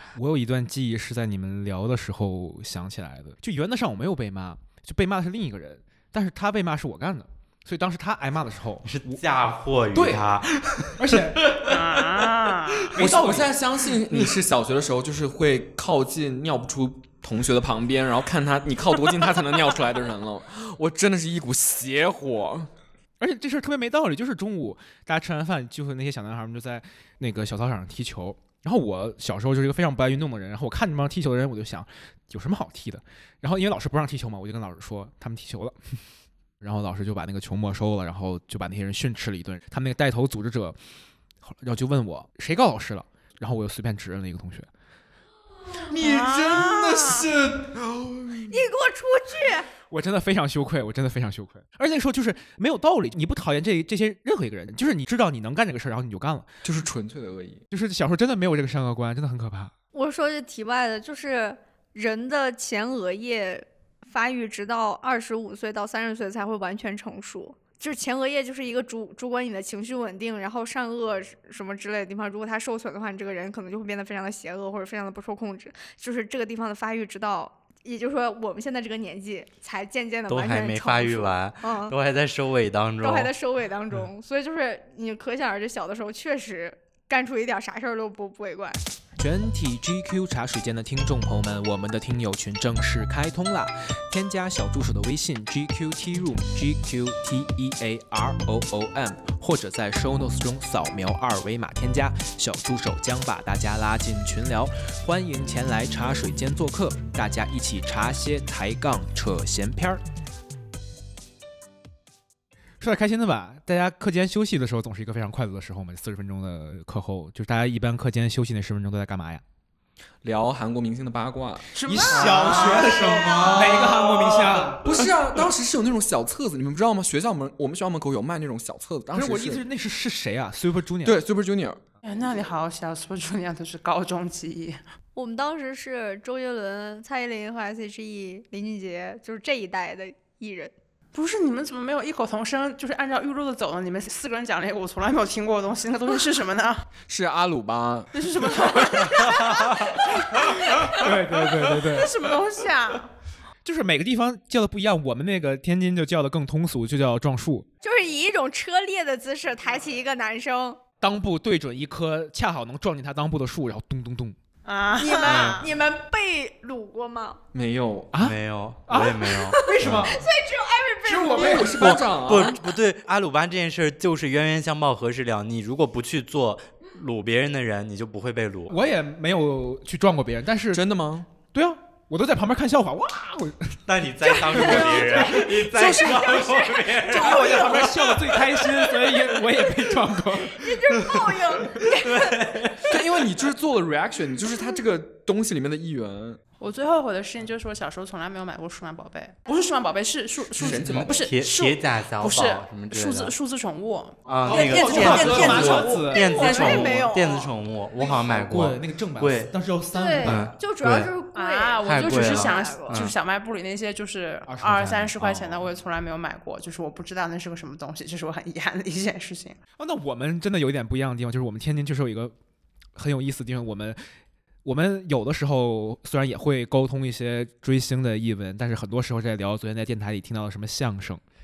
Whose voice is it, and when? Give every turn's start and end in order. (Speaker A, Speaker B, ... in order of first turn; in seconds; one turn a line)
Speaker A: 0.1-9.2
Speaker B: 8.9-11.8
Speaker A: 9.9-10.2
Speaker A: 11.0-11.6
Speaker C: 11.7-13.0
Speaker A: 12.9-13.5
Speaker D: 13.0-22.7
Speaker A: 23.2-36.0
Speaker A: 36.6-40.8
Speaker A: 41.4-44.7
Speaker D: 45.9-48.6
Speaker C: 45.9-47.2
Speaker E: 48.5-49.7
Speaker A: 49.9-56.5
Speaker D: 56.6-57.6
Speaker A: 57.7-59.7
Speaker E: 59.9-81.9
Speaker B: 80.3-83.3
Speaker E: 83.0-88.8
Speaker A: 89.2-110.0
Speaker A: 112.8-119.4
Speaker D: 120.2-121.7
Speaker C: 121.8-123.6
Speaker A: 121.8-125.1
Speaker B: 122.1-124.8
Speaker D: 122.2-124.0
Speaker D: 124.8-129.6
Speaker A: 129.1-131.2
Speaker D: 131.0-131.8
Speaker C: 132.0-134.8
Speaker E: 135.1-140.7
Speaker C: 141.1-146.9
Speaker D: 147.1-149.0
Speaker C: 148.1-153.1
Speaker A: 150.8-152.2
Speaker A: 153.6-157.7
Speaker E: 157.8-160.8
Speaker A: 161.0-164.4
Speaker C: 164.6-165.7
Speaker E: 165.0-167.4
Speaker D: 167.5-168.1
Speaker A: 168.1-170.2
Speaker B: 168.2-170.2
Speaker E: 169.5-171.9
Speaker D: 171.1-172.6
Speaker A: 171.1-171.8
Speaker B: 171.7-178.8
Speaker A: 178.7-180.8
Speaker D: 180.7-181.3
Speaker A: 181.5-183.8
Speaker B: 183.9-189.2
Speaker E: 184.2-188.0
Speaker C: 184.6-186.5
Speaker A: 184.6-185.4
Speaker A: 187.1-190.8
Speaker E: 190.5-192.9
Speaker B: 190.9-192.9
Speaker D: 192.8-196.4
Speaker C: 196.6-207.1
Speaker D: 200.6-201.3
Speaker B: 200.6-203.3
Speaker B: 204.3-209.5
Speaker A: 204.5-206.3
Speaker E: 205.2-207.5
Speaker A: 208.1-210.5
Speaker E: 209.9-213.0
Speaker B: 210.2-211.1
Speaker C: 211.3-219.6
Speaker B: 211.8-213.1
Speaker A: 214.5-215.7
Speaker A: 219.8-222.3
Speaker A: 222.9-224.0
Speaker A: 224.6-231.2